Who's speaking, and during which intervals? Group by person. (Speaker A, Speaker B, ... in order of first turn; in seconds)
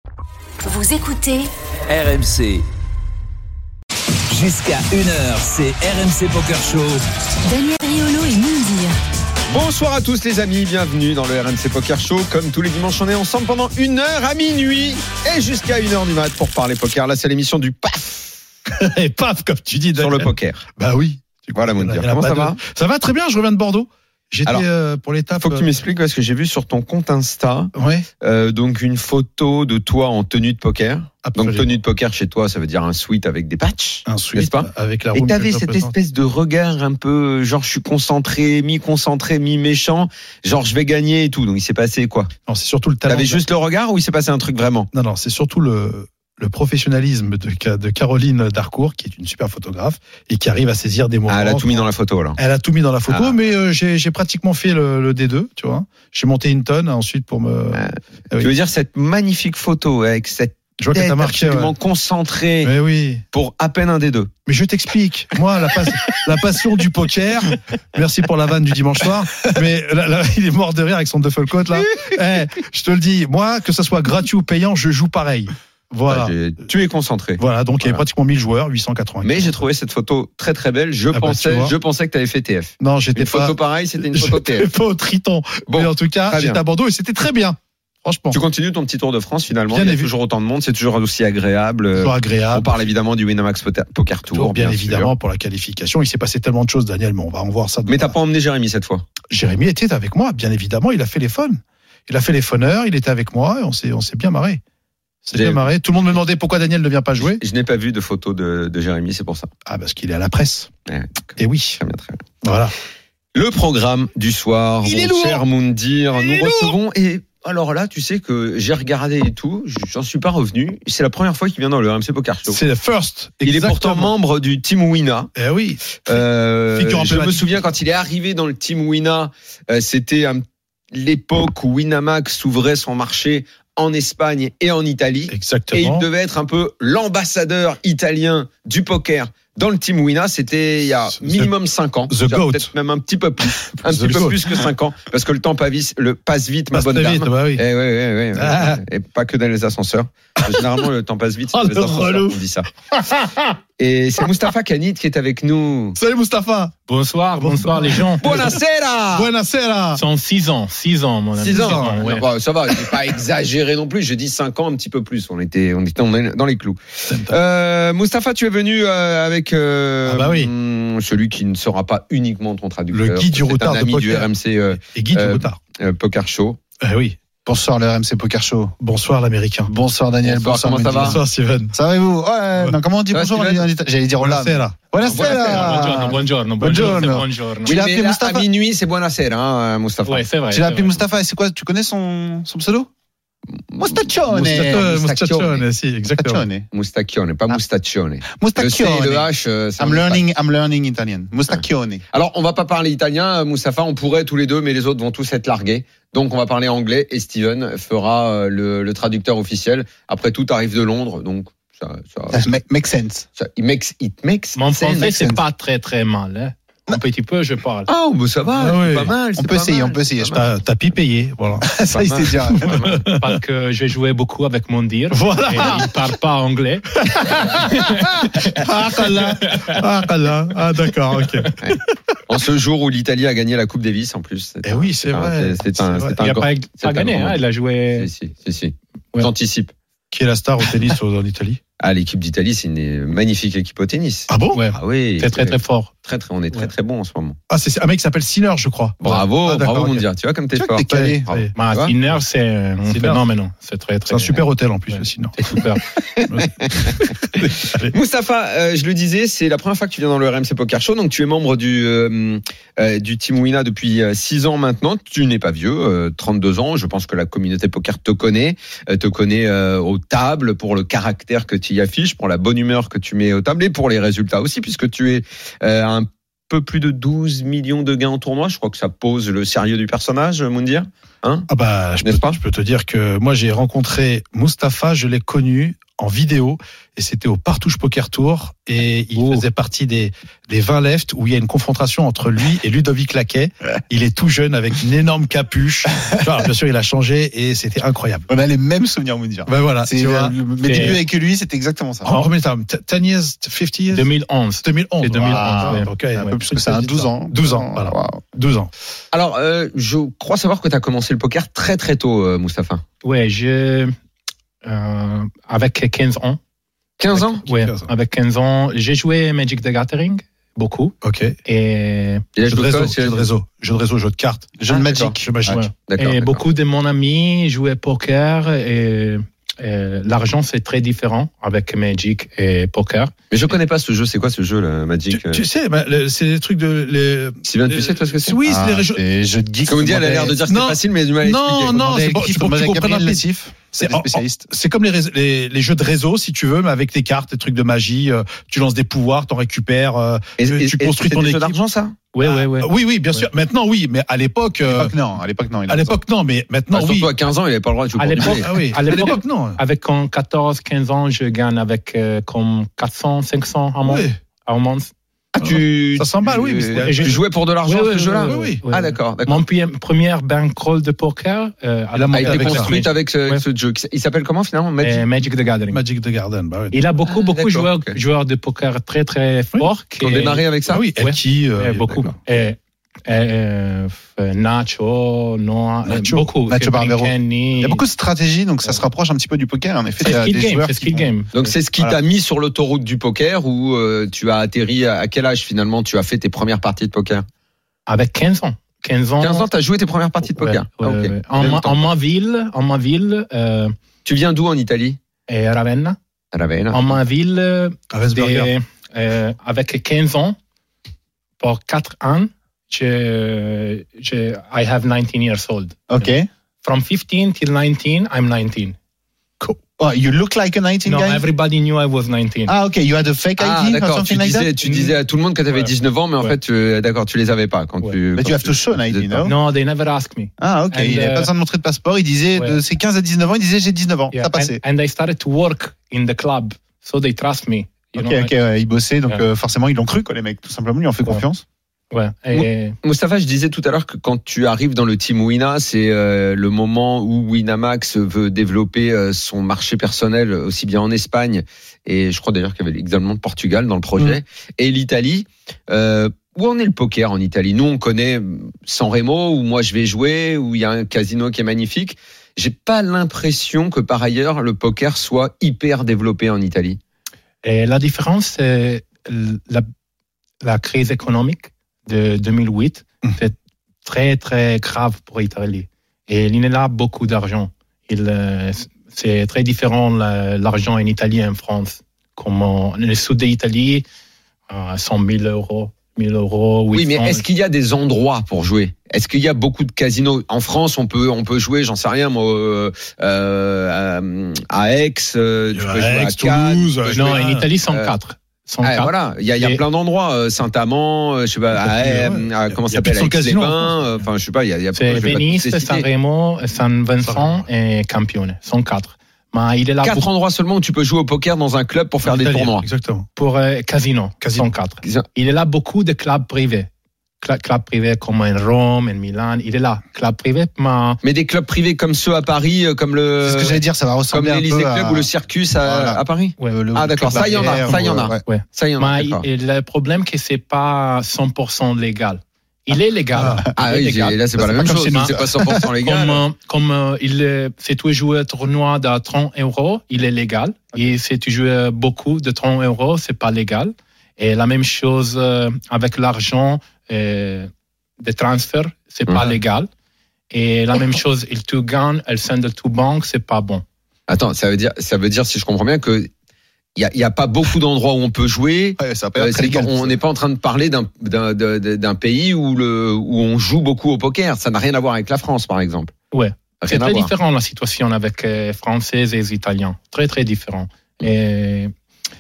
Speaker A: 0.6-1.5, 7.5-8.9
Speaker B: 1.9-2.6, 4.3-7.0
Speaker C: 9.5-18.3, 20.0-20.7, 21.5-22.6, 25.4-42.3, 43.1-44.9, 51.3-52.4, 53.1-53.4, 57.7-62.7, 63.3-64.3, 76.1-78.0, 79.2-84.7, 85.7-86.6, 88.3-95.1, 97.9-99.1, 105.3-105.7, 107.2-109.5, 110.9-112.2, 113.3-122.6, 123.4-125.3, 126.1-152.7, 153.8-156.0, 158.2-159.3, 161.4-176.6, 180.2-181.2, 183.1-183.7, 187.7-190.3, 193.8-195.6, 196.7-200.2, 202.1-212.4, 213.4-215.4, 217.9-220.5, 221.9-223.0, 231.6-237.4, 238.0-239.7, 241.8-247.4, 249.0-251.9, 256.0-281.5, 282.0-282.4, 309.1-312.8, 317.0-317.4, 322.4-323.3, 324.7-325.2, 325.9-326.4, 333.3-335.4, 337.4-338.4, 339.7-341.8, 350.4-351.9, 356.7-359.0, 365.4-369.4, 372.1-375.1, 377.1-377.9, 380.0-380.8, 391.3-397.3, 399.2-401.8, 404.1-405.0, 406.3-406.9, 423.4-429.3, 442.3-466.8, 486.7-497.9, 498.6-505.9, 509.8-512.7, 521.0-529.2, 533.6-536.2, 549.1-549.4, 554.1-556.1, 556.8-565.9, 566.6-567.1
Speaker D: 18.7-25.7, 27.8-28.1, 31.2-31.7, 34.1-35.9, 42.5-43.4, 44.9-58.5, 60.8-61.7, 62.6-63.2, 64.5-76.3, 77.4-79.5, 81.1-81.7, 82.8-88.4, 89.7-90.1, 92.0-92.7, 94.3-98.2, 99.3-104.6, 105.2-107.4, 109.7-110.7, 111.4-111.8, 112.4-112.7, 114.8-115.4, 116.1-116.8, 122.5-124.1, 125.4-126.2, 126.8-127.6, 135.3-136.1, 141.2-141.5, 142.1-142.7, 143.8-144.7, 146.7-147.6, 148.3-148.8, 151.5-152.4, 152.9-153.5, 156.0-156.7, 157.4-158.6, 159.1-160.0, 161.4-162.1, 167.1-167.4, 170.1-170.5, 172.9-174.3, 174.9-175.6, 176.8-177.2, 178.8-179.7, 181.0-181.8, 184.2-186.1, 186.6-187.2, 194.3-196.4, 218.6-219.1, 220.4-223.4, 225.1-225.9, 227.0-231.8, 234.7-236.2, 240.1-241.6, 244.3-244.7, 247.5-250.1, 250.9-251.5, 252.9-253.2, 254.1-255.5, 256.3-257.9, 281.5-298.3, 299.5-301.0, 302.1-304.1, 304.6-308.7, 317.2-317.9, 321.0-321.4, 322.5-324.6, 325.1-325.6, 335.1-339.0, 340.5-343.2, 343.8-351.6, 352.2-354.9, 355.7-357.1, 358.2-359.6, 363.9-364.2, 365.4-367.2, 368.3-368.6, 372.0-372.7, 375.7-376.8, 380.7-382.2, 385.9-386.3, 407.9-408.5, 495.5-497.5, 501.6-503.8, 507.1-507.5, 512.0-513.1, 514.2-514.5, 533.1-533.5, 534.4-535.6
Speaker E: 156.9-158.3, 159.9-162.2, 185.2-187.8, 190.1-191.0, 214.6-217.9, 223.2-228.7, 229.2-229.8, 236.2-238.1, 244.5-245.9, 251.6-255.8, 289.2-289.4, 300.6-301.0, 303.9-306.3, 313.0-313.9, 314.6-316.4, 317.4-322.2, 325.5-333.1, 352.1-353.3, 358.0-364.9, 366.8-373.4, 374.8-375.8, 376.7-380.4, 381.0-387.8, 390.0-391.3, 397.9-399.5, 400.2-403.7, 405.3-406.0, 406.7-410.4, 411.4-415.8, 416.6-418.8, 420.9-422.5, 424.6-424.9, 425.5-426.3, 429.2-431.3, 434.1-438.3, 441.9-442.8, 467.4-469.7, 470.4-483.9, 484.5-487.2, 497.0-499.6, 504.8-510.1, 513.2-516.7, 517.2-521.0, 526.4-549.7, 550.3-553.6, 566.1-571.7
Speaker F: 177.5-178.8, 179.7-181.2, 181.7-188.5, 190.5-192.9, 193.8-195.0, 196.2-196.7, 198.3-202.0, 212.3-213.3, 219.4-220.4, 221.6-222.8, 250.6-251.3, 298.3-302.2, 305.2-308.2, 324.6-325.6, 338.4-340.4, 341.7-344.5, 354.6-356.0, 386.5-391.1, 415.9-416.3, 419.8-421.2, 422.5-424.6, 428.2-429.4, 430.4-434.6, 438.0-441.4, 523.2-528.2, 558.8-560.0